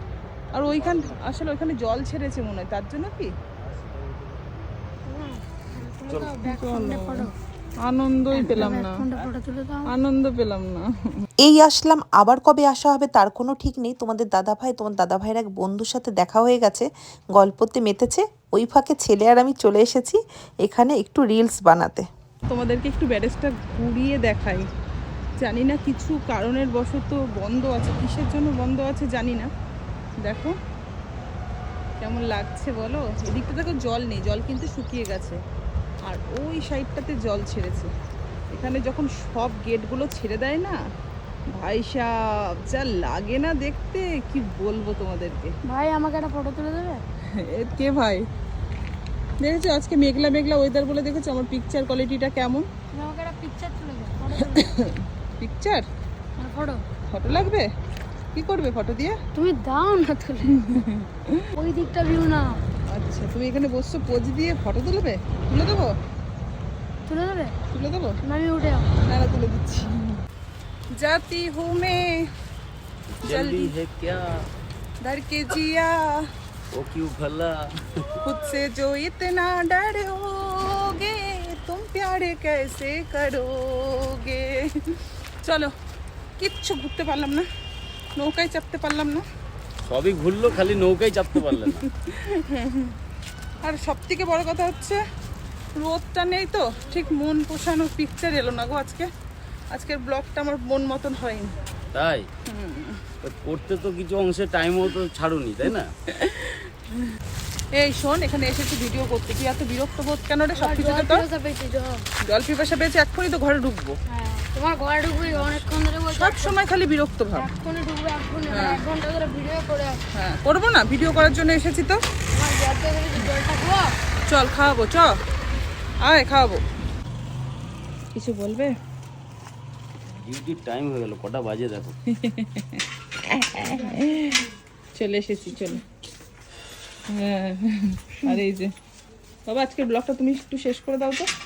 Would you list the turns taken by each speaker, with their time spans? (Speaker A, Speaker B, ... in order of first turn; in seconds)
Speaker A: 0.5-3.3, 6.4-7.3, 7.8-9.0, 9.9-10.9, 22.5-24.7, 25.4-29.5, 30.2-30.6, 32.0-35.4, 36.1-37.9, 38.5-40.8, 41.5-45.6, 47.3-48.2, 49.4-52.7, 54.5-55.9, 57.1-57.7, 58.3-59.2, 60.7-61.4, 62.9-65.9, 67.7-68.2, 69.0-70.0, 70.9-72.3, 73.2-73.7, 75.0-76.2, 78.2-85.7, 86.4-87.5, 88.2-89.2, 91.5-92.9, 93.6-95.0, 95.7-99.1, 99.7-101.6, 102.5-103.0, 106.1-106.8, 107.8-111.2, 112.2-114.0, 115.4-117.5, 118.5-118.8, 120.2-122.0, 124.3-125.2, 126.0-126.6, 128.1-128.8, 132.1-135.8, 137.1-138.7, 139.5-141.3
Speaker B: 0.7-1.4, 3.6-4.4, 6.1-6.4, 73.2-74.3, 76.7-77.7, 89.8-91.9, 101.9-102.3, 103.2-105.9, 130.2-132.0
Speaker C: 5.1-7.3, 8.3-9.9, 45.7-47.0, 52.9-54.7, 56.4-56.8, 59.3-60.7, 61.6-62.6, 67.1-67.5, 68.2-68.9, 110.6-112.0, 114.1-116.6, 117.4-120.0, 122.3-124.0, 133.7-134.1
Speaker D: 11.4-22.1